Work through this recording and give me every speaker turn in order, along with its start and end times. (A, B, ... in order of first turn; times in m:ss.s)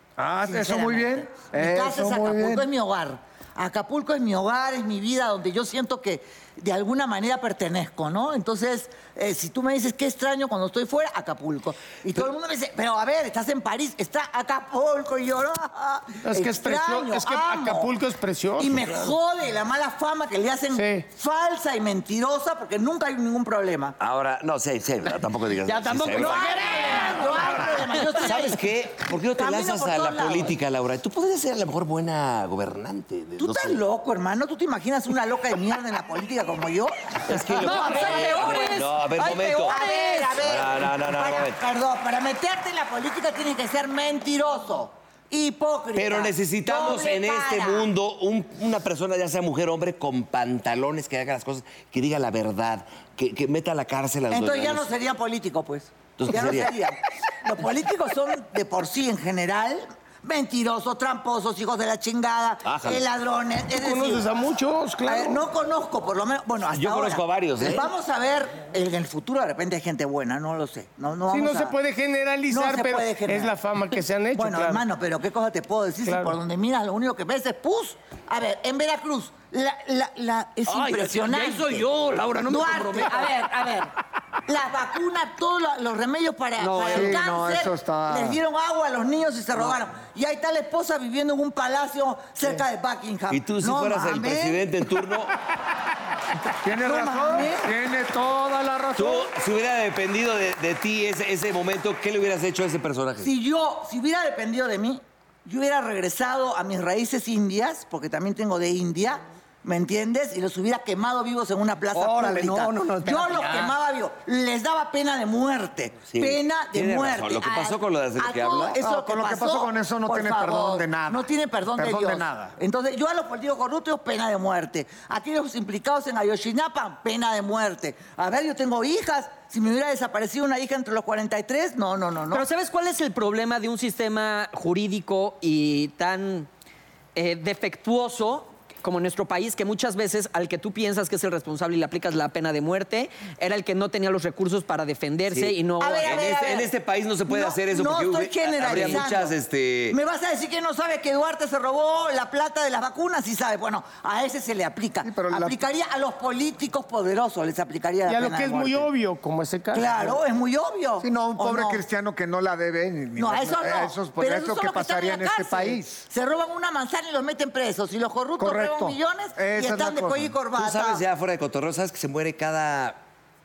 0:00.2-0:02.7 A
0:00.4-0:17.9 B
0:16.2-0:19.1 C
0:18.6-0:24.0 B
0:20.7-0:21.0 C
0:24.0-0:26.6 D
0:25.6-0:28.2 E
0:26.1-0:30.5 B
0:27.6-0:33.8 D
0:33.4-0:47.9 B
0:37.3-0:39.8 D
0:37.6-0:40.4 E
0:40.4-0:41.6 D
0:45.9-0:54.9 D
0:54.3-1:04.3 B
0:56.2-0:56.8 D
1:02.6-1:03.0 D
1:03.7-1:05.4 C
1:05.0-1:11.8 B
1:06.7-1:07.9 D
1:11.3-1:14.8 C
1:12.5-1:13.5 B
1:14.4-1:21.8 B
1:16.0-1:16.4 C
1:20.6-1:23.5 E
1:22.5-1:23.9 B
1:24.5-1:34.7 B
1:26.6-1:27.2 E
1:26.8-1:28.4 A
1:33.3-1:35.3 D
1:36.6-1:39.3 A
1:36.8-1:37.7 B
1:39.0-1:43.3 D
1:43.2-2:12.4 B
1:51.9-1:53.7 A
1:56.1-1:58.8 D
1:58.8-2:02.6 A
2:12.3-2:16.5 E
2:17.1-2:26.2 E
2:25.3-2:30.0 D
2:25.8-2:26.7 B
2:27.3-2:29.3 B
2:28.7-2:29.0 E
2:29.9-2:38.9 B
2:35.0-2:35.6 A
2:38.1-2:40.2 C
2:39.7-2:41.8 B
2:41.0-2:46.0 A
2:43.2-2:51.0 B
2:48.4-2:50.3 A
2:50.6-2:53.0 D